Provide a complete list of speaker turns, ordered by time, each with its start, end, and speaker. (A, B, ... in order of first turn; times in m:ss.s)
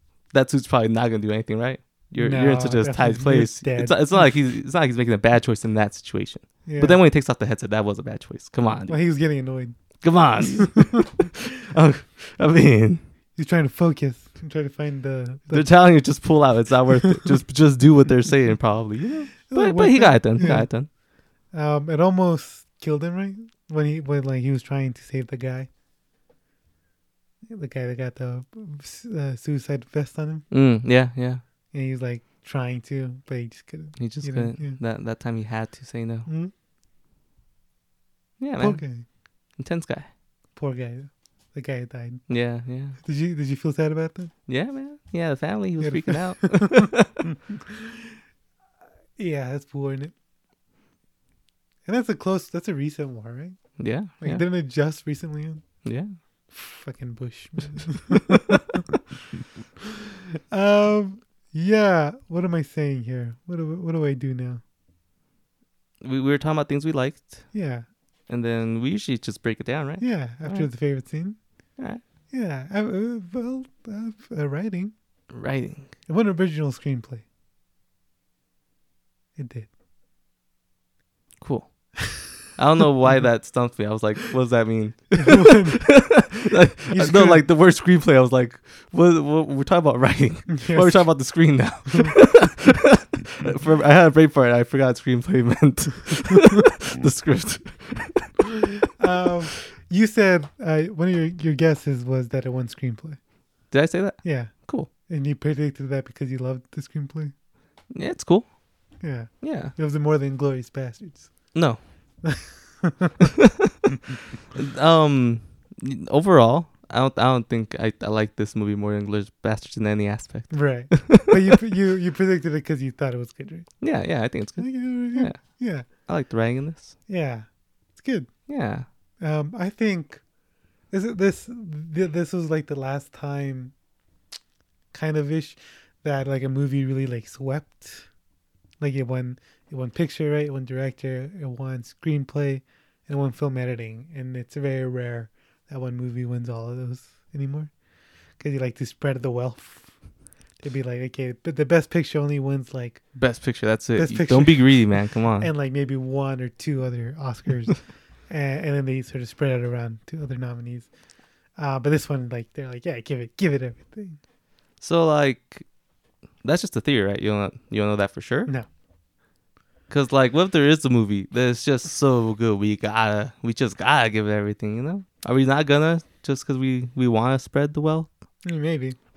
0:00.3-0:09.0 A
0:02.2-0:04.3 B
0:06.7-0:07.0 B
0:08.9-0:09.8 B
0:10.0-0:13.0 A
0:10.4-0:11.0 B
0:13.4-0:15.7 B
0:15.5-0:20.9 A
0:19.5-0:20.7 B
0:21.5-0:25.7 B
0:27.5-0:30.5 B
0:30.5-0:31.4 A
0:31.7-0:34.8 B
0:34.0-0:36.3 A
0:36.3-0:36.5 B
0:38.4-0:38.8 A
0:38.6-0:39.0 B
0:39.6-0:40.1 A
0:40.6-0:42.2 B
0:42.3-0:43.0 A
0:43.0-0:44.3 B
0:44.5-0:47.2 A
0:45.8-0:46.9 B
0:49.2-0:50.1 B
0:51.8-0:55.6 B
0:53.8-0:54.4 A
0:55.8-0:56.2 A
0:56.5-0:58.8 B
0:58.1-0:58.5 A
1:00.5-1:04.6 B
1:06.0-1:07.5 A
1:07.5-1:07.9 B
1:08.3-1:10.7 A
1:10.0-1:11.4 B
1:12.3-1:14.9 B
1:15.3-1:15.9 A
1:16.1-1:17.2 B
1:19.4-1:19.7 B
1:21.4-1:38.3 A
1:25.1-1:26.1 B
1:26.9-1:27.5 B
1:30.5-1:31.3 B
1:39.0-1:43.2 B
1:43.7-1:44.9 A
1:44.2-1:44.5 B
1:45.1-1:47.3 B
1:47.9-1:48.5 A
1:49.0-1:51.6 B
1:49.4-1:49.7 A
1:51.5-1:51.8 A
1:52.2-1:53.2 B
1:53.2-1:53.8 A
1:54.6-2:01.4 A
2:00.5-2:03.7 B
2:03.8-2:07.0 A
2:04.6-2:05.9 B
2:07.1-2:08.3 B
2:08.5-2:08.9 A
2:09.2-2:10.2 B
2:10.9-2:13.7 B
2:14.9-2:18.1 B
2:18.8-2:27.7 B
2:28.4-2:29.9 B
2:30.6-2:33.0 B
2:33.2-2:35.5 A
2:34.0-2:40.9 B
2:41.6-2:44.2 B
2:44.8-2:45.7 A
2:46.4-2:48.5 A
2:49.9-2:58.1 A
2:58.4-2:59.0 B